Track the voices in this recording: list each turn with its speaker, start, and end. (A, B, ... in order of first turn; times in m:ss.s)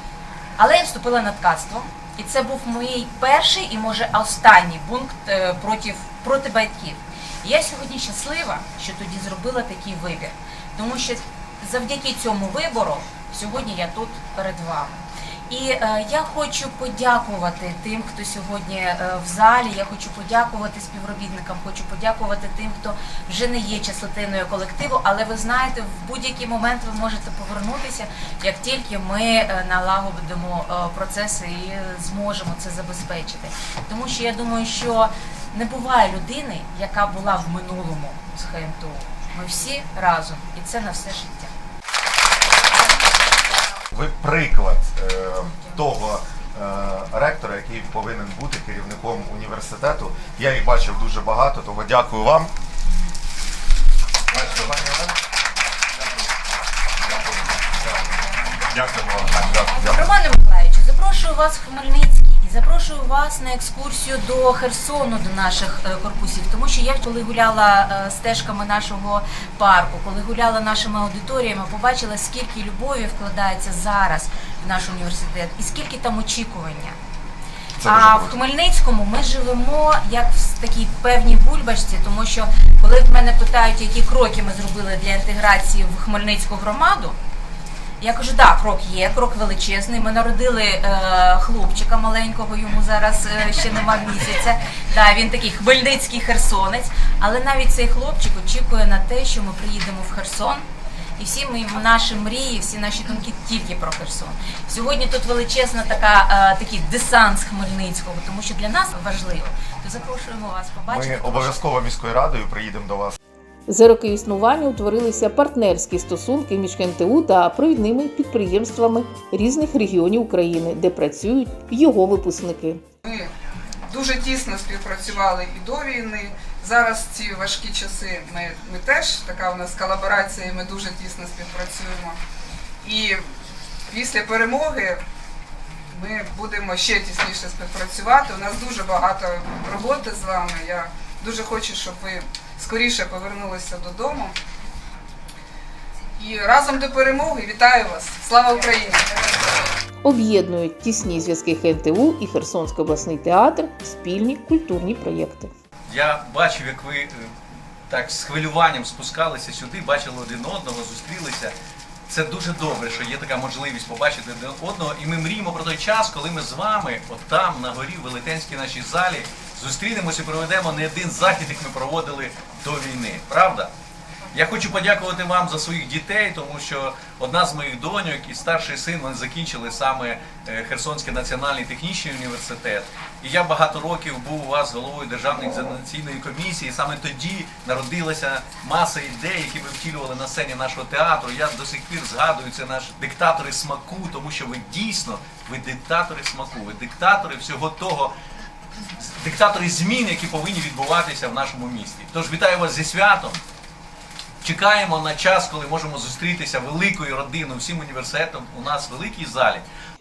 0:00.6-0:41.5 A
0:43.9-0:52.5 B
0:45.5-0:45.8 A
0:54.3-0:55.1 B
0:59.2-1:00.0 B
0:59.9-1:17.0 A
1:17.8-1:18.3 B
1:17.8-1:27.2 A
1:28.0-1:40.6 A
1:41.2-1:51.6 A
1:50.9-1:53.2 B
1:53.7-2:02.8 C
2:03.0-2:03.3 D
2:03.9-2:12.2 D
2:12.8-2:13.2 D
2:13.9-2:15.0 D
2:15.9-2:24.3 D
2:26.2-2:29.4 D
2:30.0-2:35.5 C
2:35.9-2:37.3 E
2:37.9-2:41.5 E
2:42.1-2:53.7 E
2:54.3-3:18.1 E
3:19.0-3:23.4 E
3:24.4-3:29.6 E